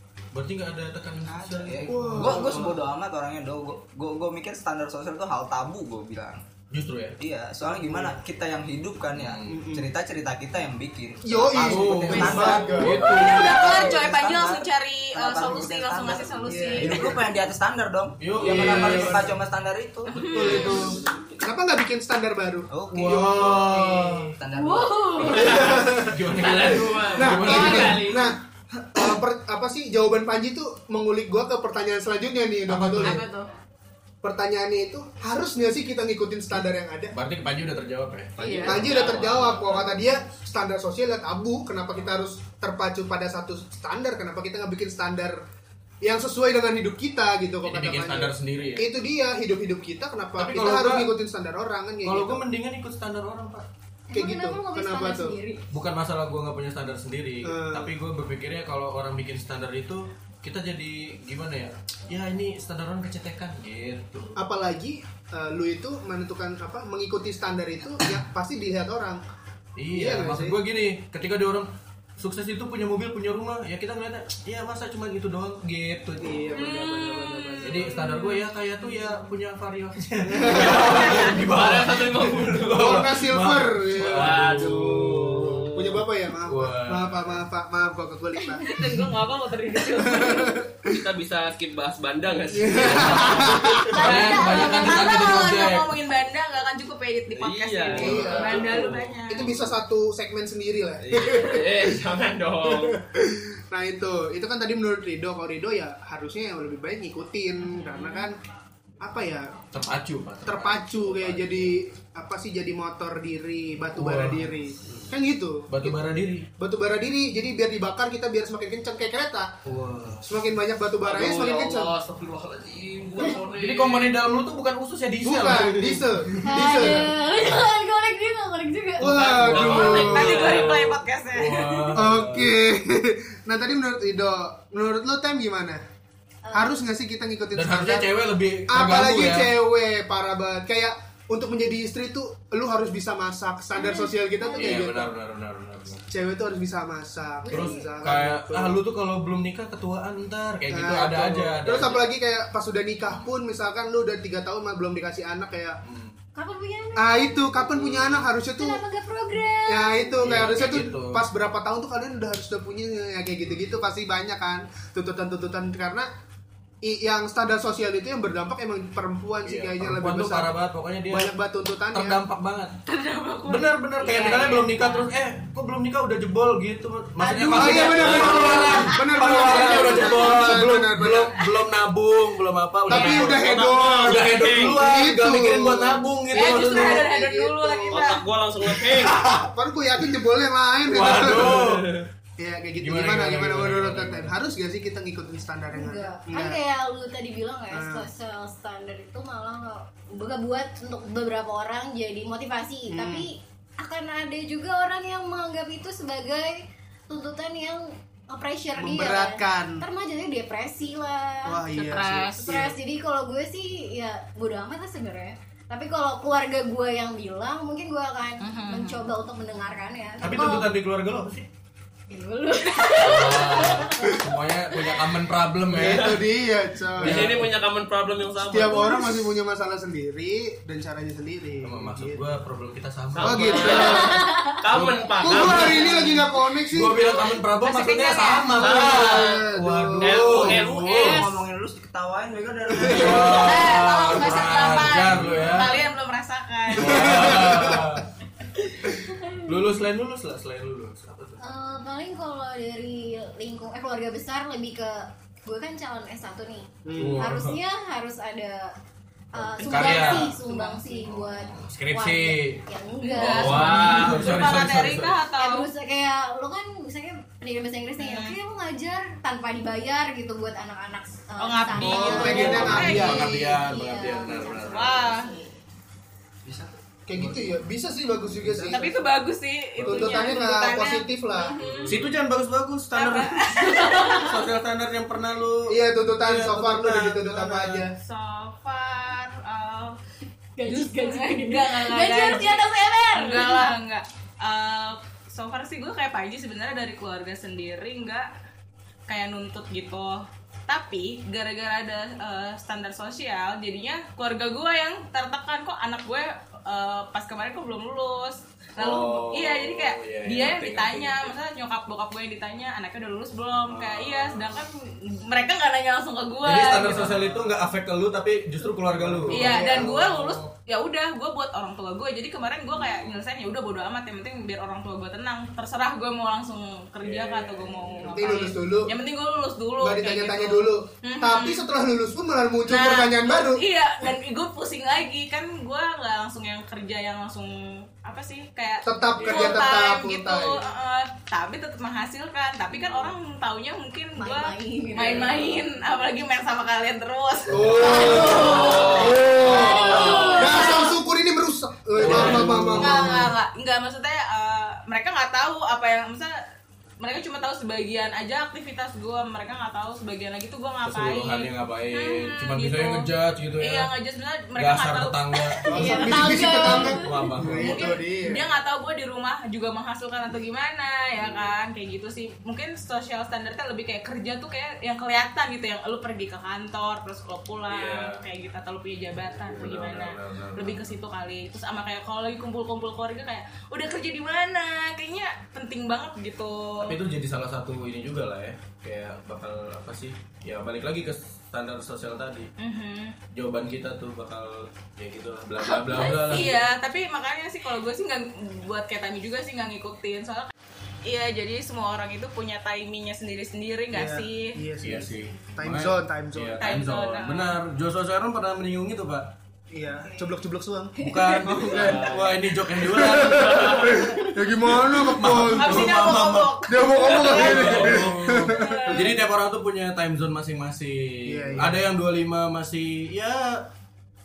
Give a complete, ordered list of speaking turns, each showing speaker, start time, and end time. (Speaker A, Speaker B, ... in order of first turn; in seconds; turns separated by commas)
Speaker A: 0.3-2.8, Speaker B: 1.2-6.4, Speaker C: 1.9-2.7, Speaker A: 6.7-7.2, Speaker B: 7.2-20.8, Speaker C: 7.7-8.1, Speaker A: 9.1-9.7, Speaker C: 9.5-9.9, Speaker C: 11.2-13.2, Speaker A: 11.6-13.8, Speaker D: 12.3-17.2, Speaker C: 16.5-17.2, Speaker A: 18.2-19.4, Speaker C: 18.4-19.3, Speaker D: 20.1-20.8, Speaker A: 20.2-21.0, Speaker C: 20.3-24.1, Speaker B: 22.7-26.0, Speaker A: 22.9-24.3, Speaker E: 24.6-25.3, Speaker D: 24.6-25.4, Speaker F: 25.3-25.8, Speaker C: 25.3-26.3, Speaker A: 25.5-28.2, Speaker F: 26.3-28.3, Speaker C: 26.9-28.4, Speaker C: 28.9-33.2, Speaker A: 32.7-33.2, Speaker D: 33.0-33.5, Speaker C: 34.2-37.1, Speaker A: 37.1-40.0, Speaker D: 38.4-38.8, Speaker F: 38.4-39.4, Speaker C: 38.6-45.4, Speaker C: 46.0-52.5, Speaker A: 47.6-48.9, Speaker A: 50.4-51.1, Speaker A: 52.0-53.6, Speaker E: 54.1-55.6, Speaker C: 54.1-55.4, Speaker A: 55.7-64.3, Speaker C: 57.4-57.9, Speaker C: 64.3-69.2, Speaker A: 69.8-76.5, Speaker C: 69.9-70.6, Speaker C: 76.2-78.0, Speaker D: 76.5-78.5, Speaker A: 77.6-85.7, Speaker C: 80.3-81.0, Speaker F: 80.8-82.8, Speaker C: 82.7-88.8, Speaker F: 84.0-85.9, Speaker A: 86.5-87.4, Speaker D: 88.6-90.6, Speaker C: 90.0-90.9, Speaker F: 90.8-93.8, Speaker C: 92.5-94.0, Speaker A: 92.8-95.9, Speaker E: 94.0-95.2, Speaker D: 94.0-99.5, Speaker F: 97.3-99.1, Speaker C: 97.9-102.0, Speaker A: 98.0-98.9, Speaker F: 101.0-103.0, Speaker C: 102.6-108.4, Speaker C: 109.0-109.6, Speaker A: 109.7-111.7, Speaker C: 110.4-116.0, Speaker A: 114.0-115.0, Speaker A: 115.7-116.5, Speaker C: 116.6-119.6, Speaker A: 119.6-120.3, Speaker C: 120.2-121.9, Speaker F: 121.0-124.2, Speaker A: 123.3-126.8, Speaker C: 125.2-127.1, Speaker E: 126.4-129.2, Speaker C: 129.0-130.5, Speaker A: 129.0-132.5, Speaker F: 129.1-130.9, Speaker D: 129.7-132.0, Speaker C: 131.9-135.8, Speaker E: 136.4-136.8, Speaker C: 136.5-138.1, Speaker A: 137.5-139.5, Speaker C: 138.7-145.1, Speaker E: 143.7-144.8, Speaker A: 144.5-146.0, Speaker C: 146.1-148.8, Speaker E: 147.4-147.9, Speaker A: 147.5-152.1, Speaker C: 150.7-155.8, Speaker A: 155.8-156.1, Speaker E: 156.3-157.6, Speaker C: 156.9-158.8, Speaker A: 157.7-158.3, Speaker E: 158.5-160.3, Speaker C: 159.7-166.1, Speaker A: 160.2-161.2, Speaker C: 166.8-170.5, Speaker A: 169.4-171.3, Speaker C: 171.1-172.2, Speaker A: 171.9-172.7, Speaker D: 172.9-175.1, Speaker A: 173.5-187.1, Speaker C: 177.5-181.4, Speaker E: 177.7-178.3, Speaker F: 177.9-178.6, Speaker D: 179.5-180.5, Speaker E: 179.5-180.1, Speaker C: 182.9-188.0, Speaker D: 182.9-183.3, Speaker F: 183.4-184.8, Speaker D: 186.3-188.2, Speaker F: 187.9-189.2, Speaker A: 188.6-189.4, Speaker C: 189.2-191.8, Speaker A: 190.9-192.0, Speaker F: 191.6-192.0, Speaker C: 192.4-196.6, Speaker A: 192.8-194.3, Speaker E: 195.7-211.6, Speaker C: 197.7-198.1, Speaker C: 202.9-203.3, Speaker C: 208.8-209.8, Speaker C: 211.4-212.8, Speaker D: 211.7-212.5, Speaker E: 212.4-220.7, Speaker D: 218.4-219.0, Speaker A: 220.2-221.5, Speaker E: 222.1-224.1, Speaker D: 222.6-223.6, Speaker A: 223.0-226.2, Speaker C: 225.7-227.5, Speaker F: 225.8-226.2, Speaker A: 227.0-227.5, Speaker F: 227.0-229.0, Speaker C: 228.5-232.2, Speaker A: 231.6-234.0, Speaker F: 233.1-236.1, Speaker C: 233.2-234.2, Speaker E: 233.9-234.6, Speaker A: 234.7-236.2, Speaker C: 235.2-237.1, Speaker A: 236.7-241.2, Speaker D: 237.2-238.9, Speaker F: 238.6-241.2, Speaker C: 238.7-240.5, Speaker B: 240.3-244.5, Speaker C: 242.8-243.2, Speaker A: 242.8-245.8, Speaker D: 243.4-247.3, Speaker A: 246.7-248.1, Speaker C: 246.8-248.0, Speaker A: 249.4-251.4, Speaker E: 251.4-258.7, Speaker C: 256.8-257.3, Speaker A: 257.0-257.6, Speaker E: 259.3-264.1, Speaker A: 259.6-260.4, Speaker D: 259.7-261.0, Speaker A: 261.0-262.6, Speaker D: 263.0-265.7, Speaker A: 263.1-265.2, Speaker F: 263.4-264.3, Speaker E: 265.4-275.5, Speaker D: 268.0-268.4, Speaker D: 271.4-273.3, Speaker A: 271.8-275.1, Speaker C: 271.8-273.5, Speaker D: 274.6-275.4, Speaker B: 276.4-277.6, Speaker C: 277.1-278.9, Speaker B: 278.5-278.9, Speaker D: 278.7-282.1, Speaker A: 279.8-280.3, Speaker C: 279.8-281.6, Speaker A: 281.6-287.9, Speaker D: 282.9-284.5, Speaker C: 285.7-287.9, Speaker D: 287.9-290.0, Speaker E: 290.6-293.7, Speaker D: 290.6-298.3, Speaker D: 299.1-317.4, Speaker A: 308.8-311.3, Speaker A: 313.7-314.6, Speaker A: 316.4-320.5, Speaker C: 318.9-320.1, Speaker D: 319.3-331.7, Speaker A: 322.8-323.2, Speaker A: 327.0-328.4, Speaker C: 328.0-328.9, Speaker C: 329.8-333.6, Speaker D: 332.7-351.0, Speaker C: 338.8-340.6, Speaker A: 339.1-339.8, Speaker E: 344.1-345.6, Speaker A: 345.0-345.5, Speaker C: 347.5-353.3, Speaker A: 347.5-348.4, Speaker E: 347.9-350.9, Speaker F: 348.4-350.2, Speaker A: 351.9-353.2, Speaker D: 352.0-356.3, Speaker D: 357.0-366.9, Speaker A: 360.8-363.9, Speaker A: 364.6-365.6, Speaker E: 365.6-367.3, Speaker C: 365.7-368.5, Speaker A: 366.6-367.9, Speaker D: 367.6-387.0, Speaker A: 371.2-371.5, Speaker A: 377.7-378.2, Speaker A: 379.2-380.9, Speaker A: 386.8-392.5, Speaker D: 392.6-393.1, Speaker A: 393.3-396.6, Speaker D: 395.6-400.5, Speaker D: 401.0-404.6, Speaker C: 403.9-406.7, Speaker A: 404.8-409.3, Speaker D: 406.6-407.6, Speaker C: 409.7-415.9, Speaker E: 411.0-411.6, Speaker A: 411.0-423.6, Speaker F: 411.7-412.3, Speaker F: 413.6-413.9, Speaker D: 415.5-419.3, Speaker C: 416.7-419.1, Speaker C: 421.2-421.9